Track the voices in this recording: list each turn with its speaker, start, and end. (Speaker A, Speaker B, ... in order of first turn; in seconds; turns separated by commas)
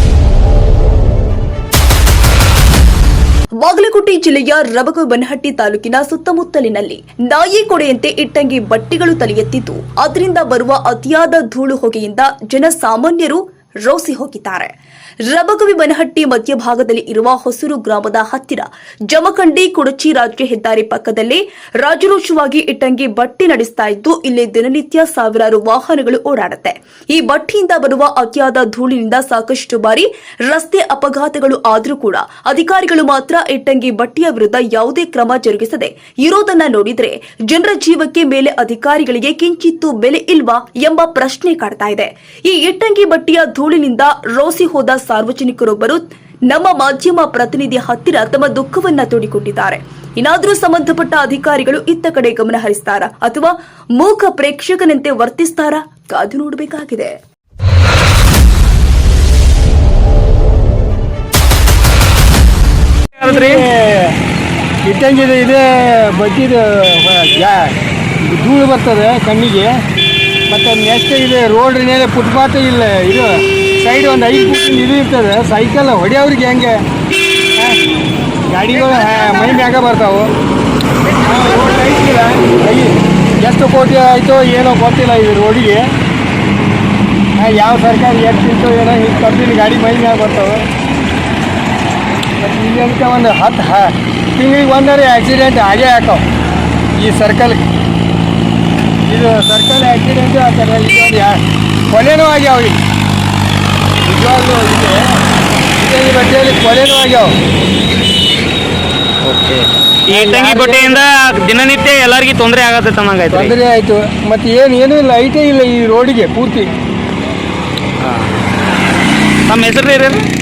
Speaker A: 3.6-14.7, Speaker A: 15.3-57.1, Speaker B: 63.2-63.6, Speaker C: 63.2-64.2, Speaker C: 64.8-69.8, Speaker C: 70.5-76.8, Speaker C: 78.5-80.3, Speaker C: 81.2-85.9, Speaker C: 87.4-90.7, Speaker C: 92.4-96.2, Speaker C: 97.0-97.6, Speaker C: 99.0-102.8, Speaker C: 104.0-105.2, Speaker C: 105.8-107.3, Speaker B: 109.2-113.5, Speaker C: 110.1-111.0, Speaker C: 113.3-116.7, Speaker B: 118.0-118.3, Speaker B: 119.5-120.2